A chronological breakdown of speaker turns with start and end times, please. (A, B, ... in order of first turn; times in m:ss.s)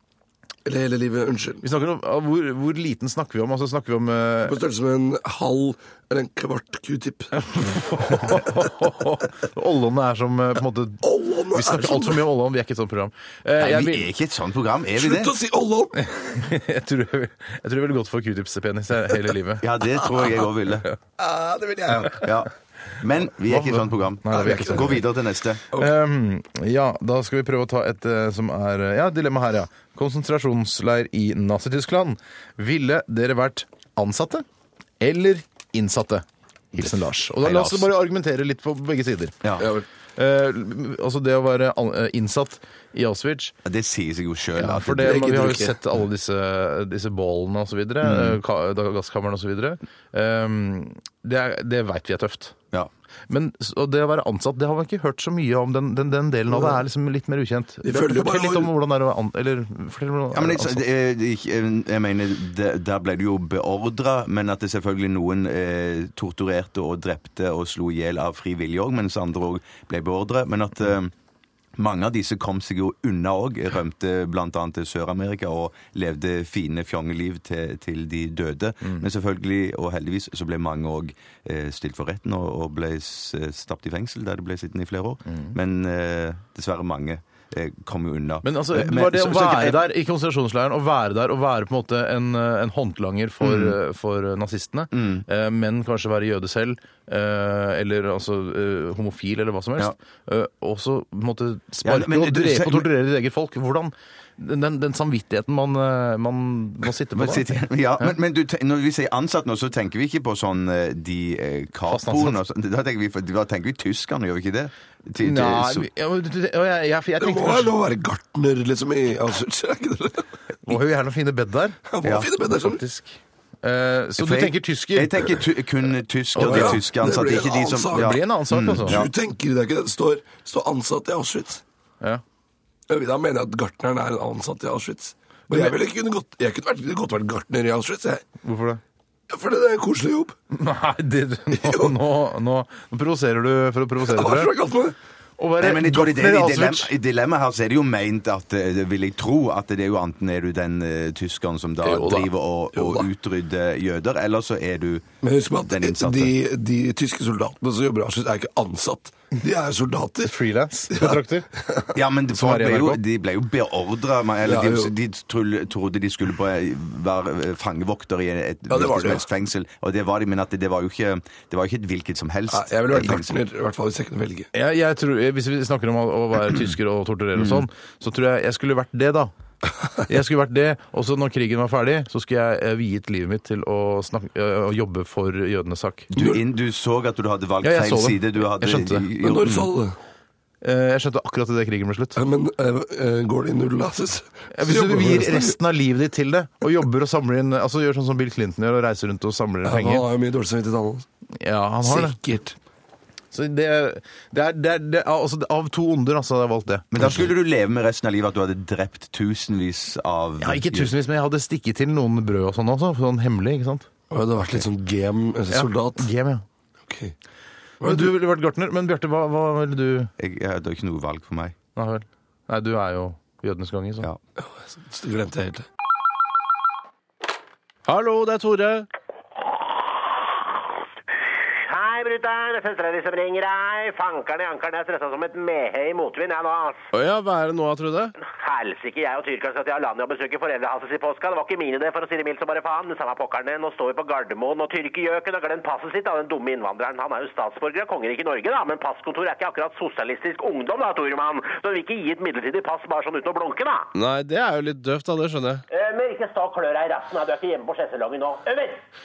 0:00.6-0:01.6 A
0:01.6-0:04.5 B
0:04.4-0:07.3 A
0:07.6-0:11.0 B
0:11.0-0:12.2 A
0:11.6-0:14.1 B
0:13.6-0:15.3 C
0:15.0-0:15.9 A
0:16.2-0:19.6 B
0:19.6-0:20.9 C
0:20.0-0:20.4 A
0:21.2-0:22.2 A
0:21.9-0:25.6 C
0:23.5-0:25.1 B
0:24.3-0:24.9 A
0:25.8-0:34.4 B
0:35.0-0:36.2 B
0:36.8-0:39.3 B
0:37.4-0:37.9 C
0:39.4-0:39.7 C
0:39.6-0:39.8 A
0:40.2-0:43.5 B
0:43.6-0:45.5 C
0:44.6-0:52.5 B
0:44.9-0:45.8 A
0:48.0-0:48.4 C
0:53.3-1:00.8 B
0:56.5-0:56.8 A
0:57.8-0:58.7 A
1:00.3-1:11.1 C
1:11.8-1:29.9 C
1:25.3-1:25.5 B
1:28.4-1:48.1 B
1:33.4-1:33.8 C
1:34.9-1:35.3 C
1:41.8-1:42.9 C
1:47.1-1:55.9 C
1:51.9-1:52.4 B
1:55.2-1:57.7 B
1:57.2-2:00.3 A
2:00.7-2:01.8 B
2:01.9-2:02.8 A
2:02.0-2:02.3 C
2:02.6-2:03.1 B
2:03.6-2:05.2 B
2:04.2-2:09.1 C
2:06.4-2:06.8 B
2:06.4-2:08.2 A
2:08.0-2:09.0 B
2:08.9-2:11.6 A
2:12.9-2:18.3 A
2:18.4-2:18.8 B
2:19.3-2:20.4 A
2:20.6-2:24.5 B
2:21.5-2:22.0 A
2:24.0-2:25.0 A
2:25.4-2:26.9 B
2:25.6-2:36.4 C
2:31.8-2:32.2 A
2:32.7-2:33.1 A
2:35.2-2:40.4 A
2:40.3-2:41.4 B
2:40.9-2:41.9 A
2:41.9-2:53.3 C
2:42.3-2:43.0 B
2:44.4-2:44.9 A
2:48.7-2:49.3 A
2:52.5-2:54.5 A
2:54.6-2:59.3 B
2:57.4-2:57.7 C
3:00.1-3:06.1 B
3:06.1-3:09.7 C
3:06.2-3:06.4 A
3:07.6-3:09.1 B
3:09.2-3:10.0 A
3:10.6-3:12.2 B
3:12.2-3:15.6 A
3:14.6-3:20.0 B
3:19.6-3:21.1 A
3:21.4-3:22.2 B
3:21.8-3:22.6 A
3:23.3-3:27.2 B
3:26.9-3:31.0 C
3:30.4-3:33.8 B
3:34.1-3:36.1 A
3:35.5-3:36.4 B
3:36.8-3:37.1 A
3:37.8-3:38.2 A
3:37.8-3:40.1 B
3:40.2-3:41.6 C
3:41.8-3:44.1 B
3:44.4-3:45.7 A
3:47.9-3:48.9 D
3:51.5-3:56.9 E
3:56.9-3:58.2 D
3:58.2-4:13.9 E
4:14.0-4:15.6 D
4:15.7-4:18.8 E